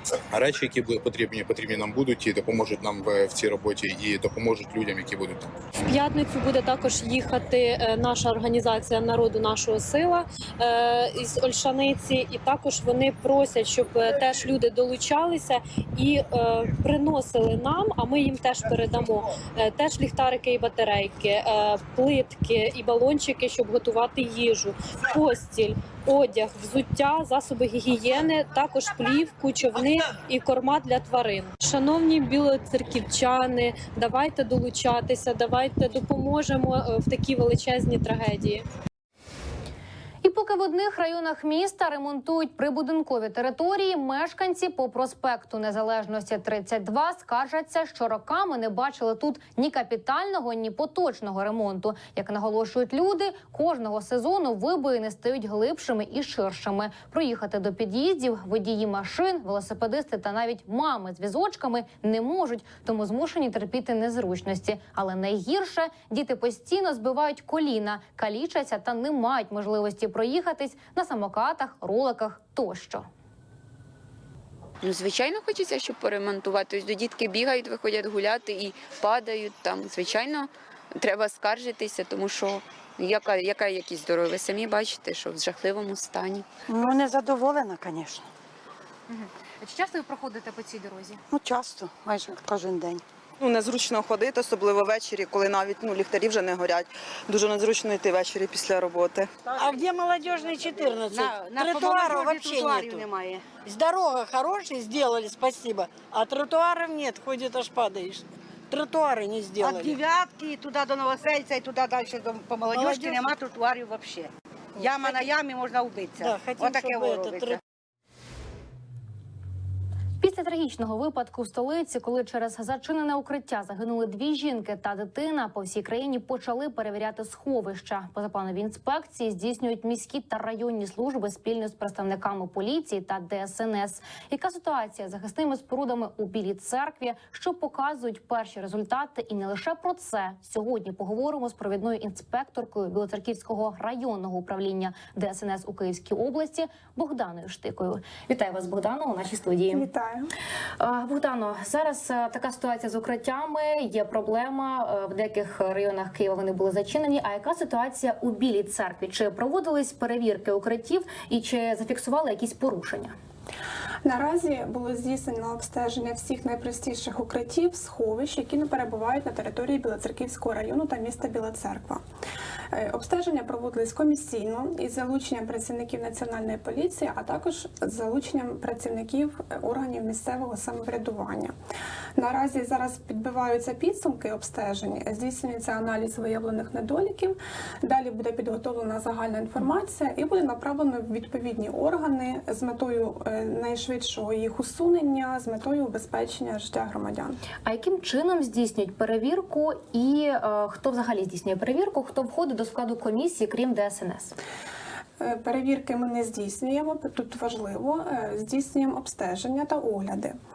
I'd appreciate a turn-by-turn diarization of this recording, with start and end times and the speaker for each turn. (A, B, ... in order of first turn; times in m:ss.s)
0:00.3-0:05.5 A
0:05.9-0:38.6 B
0:40.2-1:13.1 C
1:14.8-1:26.5 D
1:26.7-1:28.2 E
1:29.1-1:31.2 C
1:31.5-1:33.0 E
1:33.4-1:39.3 F
1:39.6-1:50.0 E
1:41.1-1:43.1 G
1:49.6-1:49.9 G
1:52.7-1:53.1 E
1:52.7-1:53.4 G
1:54.8-1:55.2 E
1:54.9-1:55.2 G
1:56.2-1:57.6 E
1:56.6-1:57.6 G
2:00.2-2:29.9 C
2:29.7-2:30.3 H
2:30.8-2:43.1 C
2:44.0-2:52.0 H
2:52.7-3:01.5 H
3:02.2-3:17.4 H
3:17.6-3:24.4 C
3:25.2-3:30.4 H